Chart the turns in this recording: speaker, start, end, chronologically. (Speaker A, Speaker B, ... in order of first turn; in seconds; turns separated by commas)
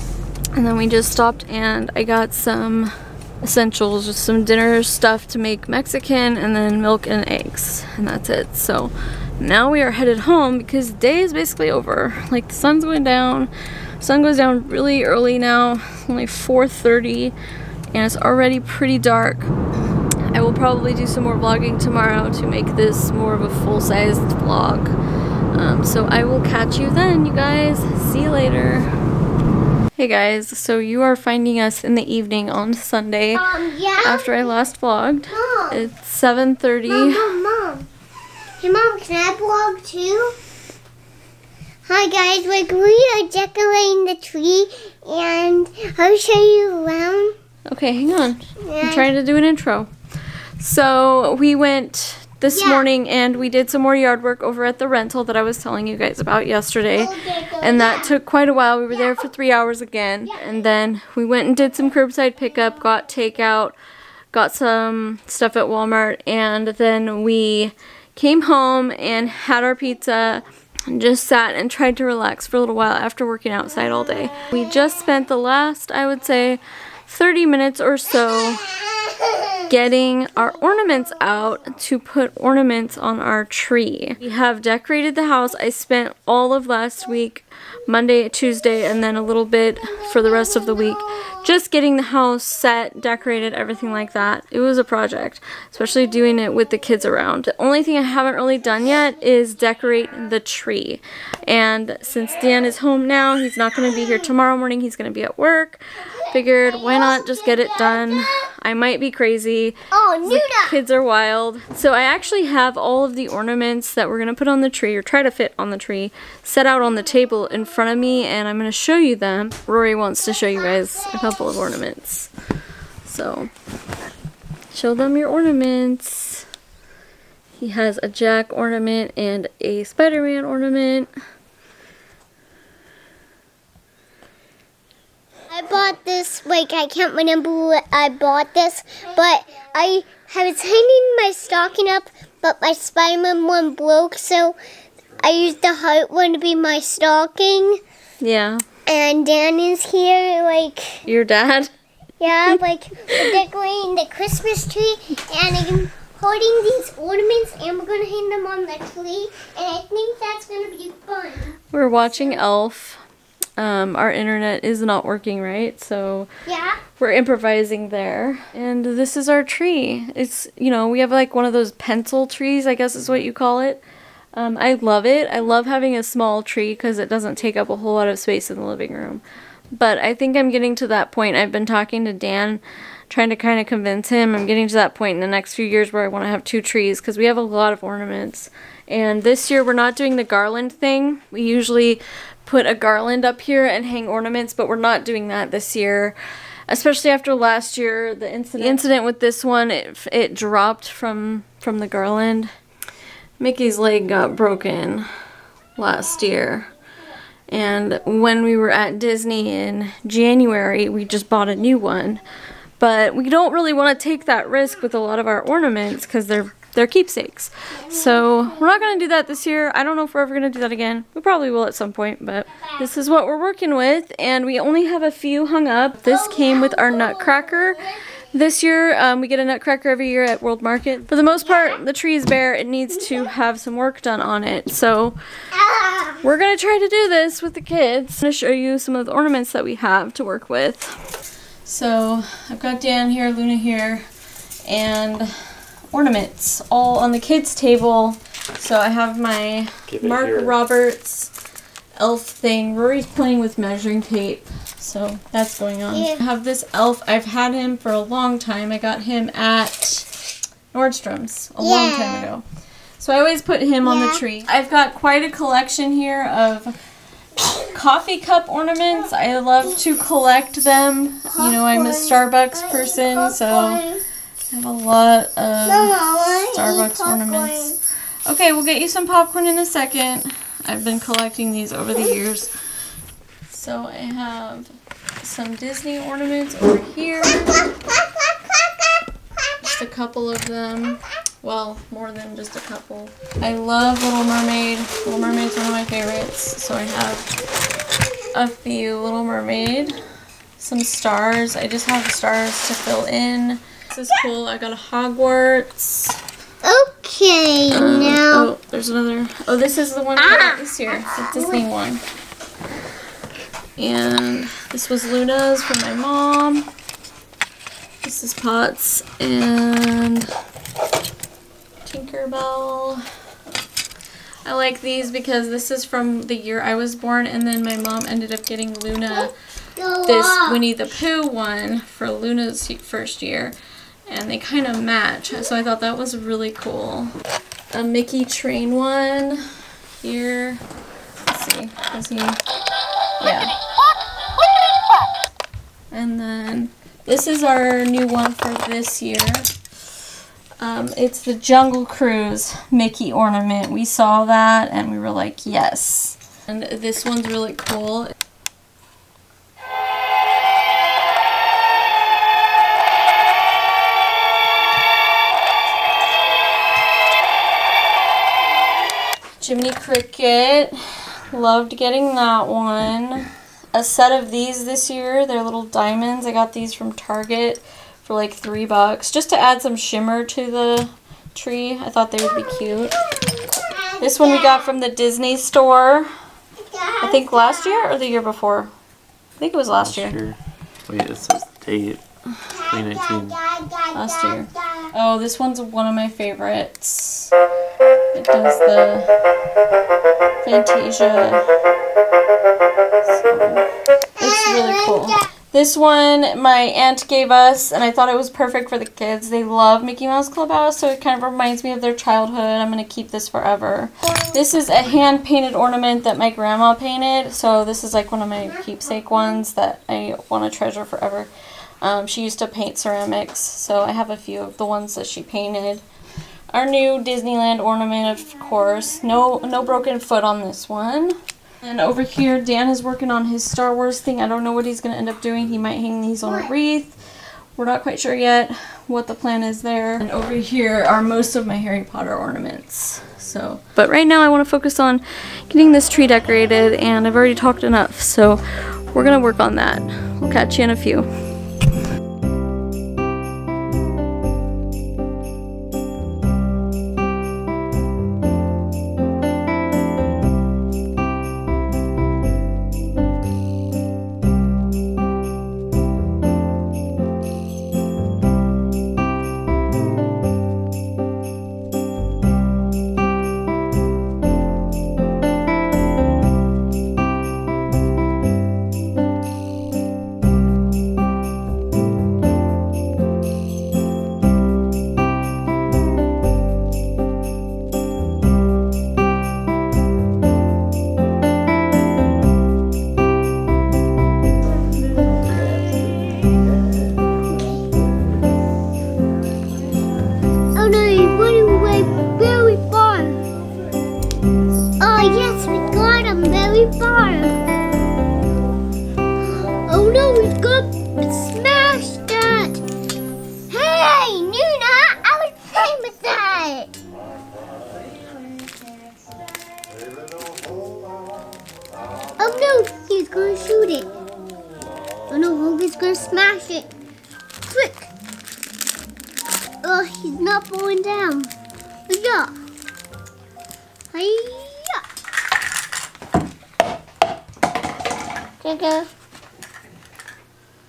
Speaker A: 0.5-17.3, Speaker A: 17.9-19.5, Speaker A: 20.2-24.9, Speaker A: 25.5-28.9, Speaker A: 29.9-37.4, Speaker B: 33.3-34.5, Speaker B: 35.3-35.8, Speaker B: 36.9-37.9, Speaker B: 38.6-40.4, Speaker B: 41.9-47.4, Speaker A: 47.7-49.9, Speaker B: 48.6-49.1, Speaker A: 50.6-63.7, Speaker B: 52.5-52.9, Speaker B: 56.9-58.1, Speaker A: 64.3-78.7, Speaker B: 79.1-79.5, Speaker A: 79.6-122.3, Speaker B: 106.3-108.4, Speaker B: 109.9-110.8, Speaker B: 120.7-121.4, Speaker A: 123.0-123.5, Speaker A: 124.7-126.5, Speaker A: 127.6-131.1, Speaker B: 135.5-144.6, Speaker B: 145.2-147.8, Speaker A: 148.2-148.6, Speaker B: 148.9-151.1, Speaker A: 151.1-151.7, Speaker B: 152.2-161.6, Speaker A: 161.7-163.0, Speaker A: 163.6-166.3, Speaker B: 166.4-166.8, Speaker A: 166.9-173.8, Speaker A: 174.3-196.2, Speaker A: 196.7-202.5, Speaker A: 203.4-205.1, Speaker A: 205.8-206.7, Speaker A: 207.5-212.2, Speaker A: 212.8-235.2, Speaker B: 217.7-218.8, Speaker B: 226.0-227.8, Speaker B: 231.4-231.8, Speaker B: 235.5-236.2, Speaker A: 236.2-241.0, Speaker A: 241.6-244.1, Speaker A: 244.7-245.3, Speaker A: 245.9-251.3, Speaker C: 249.9-250.5, Speaker A: 252.0-260.2, Speaker B: 255.9-256.2, Speaker A: 260.7-262.4, Speaker B: 261.6-262.3, Speaker A: 263.0-266.8, Speaker B: 263.8-264.2, Speaker A: 267.4-273.8, Speaker B: 271.3-274.0, Speaker A: 274.5-282.5, Speaker B: 275.6-277.8, Speaker A: 283.5-287.6, Speaker B: 288.1-288.9, Speaker A: 289.6-297.4, Speaker A: 298.3-300.0, Speaker A: 300.6-306.2, Speaker B: 306.6-308.5, Speaker A: 307.7-312.0, Speaker B: 310.2-311.6, Speaker A: 313.8-316.7, Speaker A: 318.0-320.3, Speaker A: 321.8-323.0, Speaker A: 324.4-329.3, Speaker B: 329.1-330.7, Speaker A: 330.0-333.5, Speaker A: 334.1-337.1, Speaker A: 337.7-340.6, Speaker A: 341.3-342.4, Speaker A: 343.2-343.5, Speaker A: 345.9-349.5, Speaker A: 350.6-358.1, Speaker A: 369.4-383.0, Speaker B: 383.2-384.7, Speaker A: 384.0-386.1, Speaker B: 386.6-387.9, Speaker A: 387.0-388.7, Speaker A: 389.4-390.2, Speaker C: 389.8-392.0, Speaker B: 392.5-394.9, Speaker C: 392.7-393.4, Speaker A: 393.9-397.3, Speaker A: 398.1-399.2, Speaker A: 400.4-401.5, Speaker A: 403.0-421.3, Speaker B: 404.2-405.2, Speaker B: 418.4-419.0, Speaker A: 421.8-425.8, Speaker A: 426.5-437.0, Speaker A: 437.6-451.1, Speaker B: 497.3-497.6, Speaker B: 500.5-503.2, Speaker B: 504.8-507.4, Speaker B: 509.4-512.6, Speaker B: 513.5-516.7, Speaker B: 522.2-523.9, Speaker B: 525.1-526.7, Speaker B: 527.5-527.9, Speaker B: 529.6-531.3, Speaker B: 531.9-532.3, Speaker B: 533.9-534.8, Speaker B: 538.4-538.9